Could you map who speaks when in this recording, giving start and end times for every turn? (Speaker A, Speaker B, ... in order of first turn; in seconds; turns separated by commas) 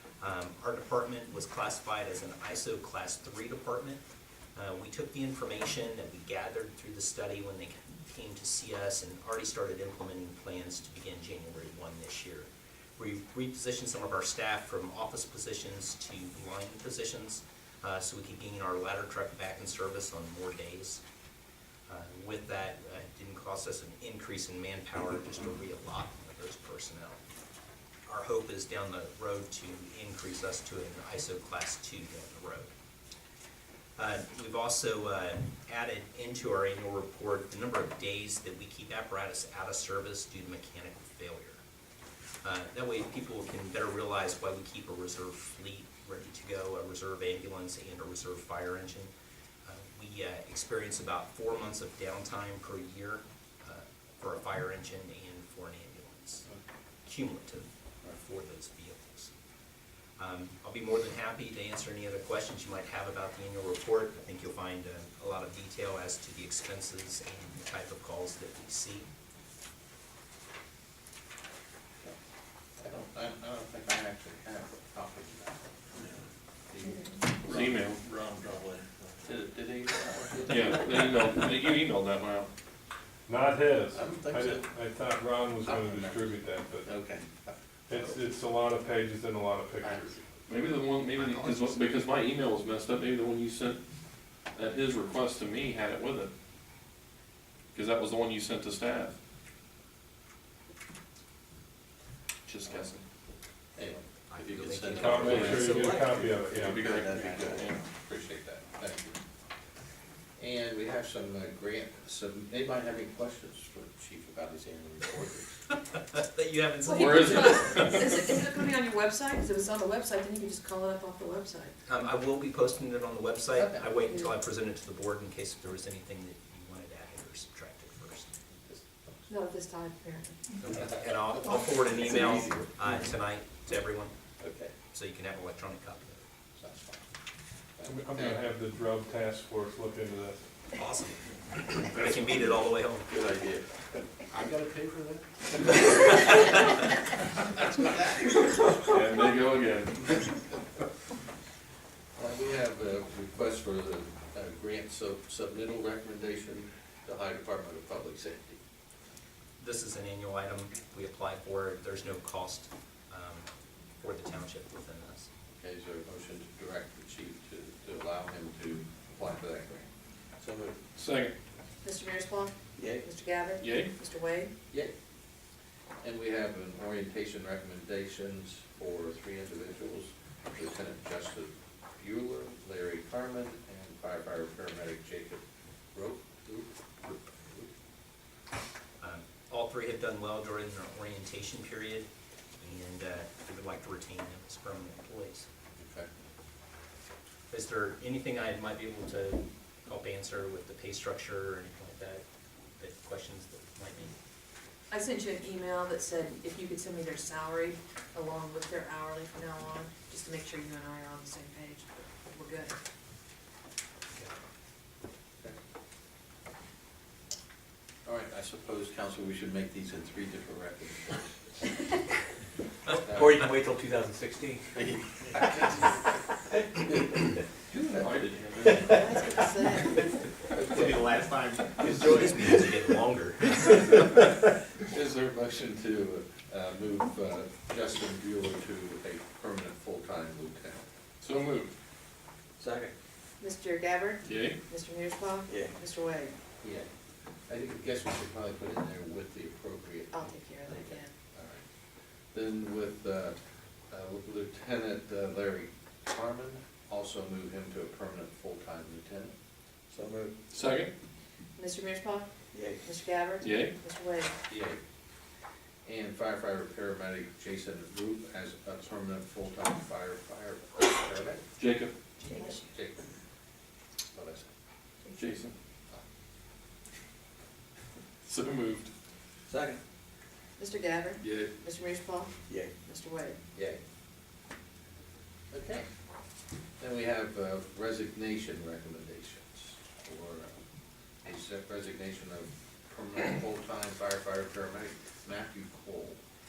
Speaker A: 0.2-4.0, Speaker A: 4.6-21.0, Speaker A: 21.9-27.2, Speaker A: 28.1-32.7, Speaker A: 34.0-41.6, Speaker A: 42.4-49.1, Speaker A: 49.6-56.5, Speaker A: 57.0-59.3, Speaker A: 60.2-69.1, Speaker B: 72.8-75.8, Speaker B: 76.7-81.3, Speaker C: 77.5-78.2, Speaker C: 80.5-82.5, Speaker D: 83.3-86.9, Speaker B: 83.9-84.7, Speaker B: 85.6-86.3, Speaker B: 86.8-88.2, Speaker D: 87.9-90.2, Speaker B: 89.8-90.2, Speaker C: 90.5-93.8, Speaker A: 91.2-91.8, Speaker C: 94.5-96.3, Speaker C: 97.7-99.2, Speaker C: 102.5-103.0, Speaker B: 103.8-109.2, Speaker A: 103.8-106.3, Speaker D: 105.0-106.9, Speaker C: 105.2-105.7, Speaker C: 106.6-107.8, Speaker E: 106.8-107.6, Speaker B: 110.4-115.6, Speaker A: 115.9-117.9, Speaker F: 116.9-121.7, Speaker C: 117.0-118.2, Speaker A: 121.9-128.3, Speaker B: 123.6-123.9, Speaker B: 128.7-129.3, Speaker F: 129.3-130.5, Speaker A: 130.6-134.1, Speaker E: 132.1-132.7, Speaker B: 134.4-134.7, Speaker A: 134.9-136.2, Speaker B: 136.6-137.1, Speaker B: 137.8-138.4, Speaker D: 137.9-140.4, Speaker A: 140.8-143.1, Speaker B: 143.1-143.7, Speaker B: 144.2-146.6, Speaker B: 147.5-148.4, Speaker C: 148.7-150.4, Speaker B: 152.2-158.6, Speaker A: 159.6-163.5, Speaker A: 164.0-165.3, Speaker B: 165.6-169.9, Speaker B: 170.5-170.7, Speaker C: 170.9-171.3, Speaker F: 171.8-174.5, Speaker E: 172.8-173.1, Speaker C: 173.6-173.9, Speaker B: 176.0-187.7, Speaker A: 189.0-192.1, Speaker A: 192.6-195.5, Speaker B: 195.8-196.1, Speaker A: 197.5-202.2, Speaker A: 202.8-204.1, Speaker F: 204.9-212.8, Speaker B: 218.1-221.3, Speaker E: 222.9-224.7, Speaker B: 222.9-223.4, Speaker B: 224.7-225.9, Speaker B: 226.8-227.2, Speaker B: 227.7-228.1, Speaker C: 228.0-229.3, Speaker E: 228.7-229.5, Speaker F: 228.9-230.2, Speaker A: 230.7-234.1, Speaker E: 231.8-232.7, Speaker B: 234.8-240.8, Speaker C: 241.2-241.7, Speaker E: 242.6-242.9, Speaker F: 243.4-246.3, Speaker C: 244.2-244.6, Speaker E: 245.5-245.8, Speaker B: 246.6-246.9, Speaker B: 247.5-251.6, Speaker F: 250.1-251.1, Speaker B: 252.3-253.4, Speaker B: 253.9-259.3, Speaker E: 259.9-260.3, Speaker C: 260.5-260.9, Speaker F: 261.6-264.4, Speaker E: 262.5-262.9, Speaker C: 263.4-263.8, Speaker B: 264.5-264.8, Speaker B: 265.9-271.4, Speaker C: 271.6-271.9, Speaker F: 272.2-272.6, Speaker B: 272.6-273.1, Speaker B: 274.1-274.5, Speaker C: 275.1-275.6, Speaker C: 278.2-278.9, Speaker E: 279.5-279.8, Speaker F: 280.6-283.4, Speaker C: 281.2-281.5, Speaker E: 282.5-282.7, Speaker B: 283.6-283.8, Speaker B: 285.5-285.9, Speaker B: 286.8-290.6, Speaker B: 291.2-296.2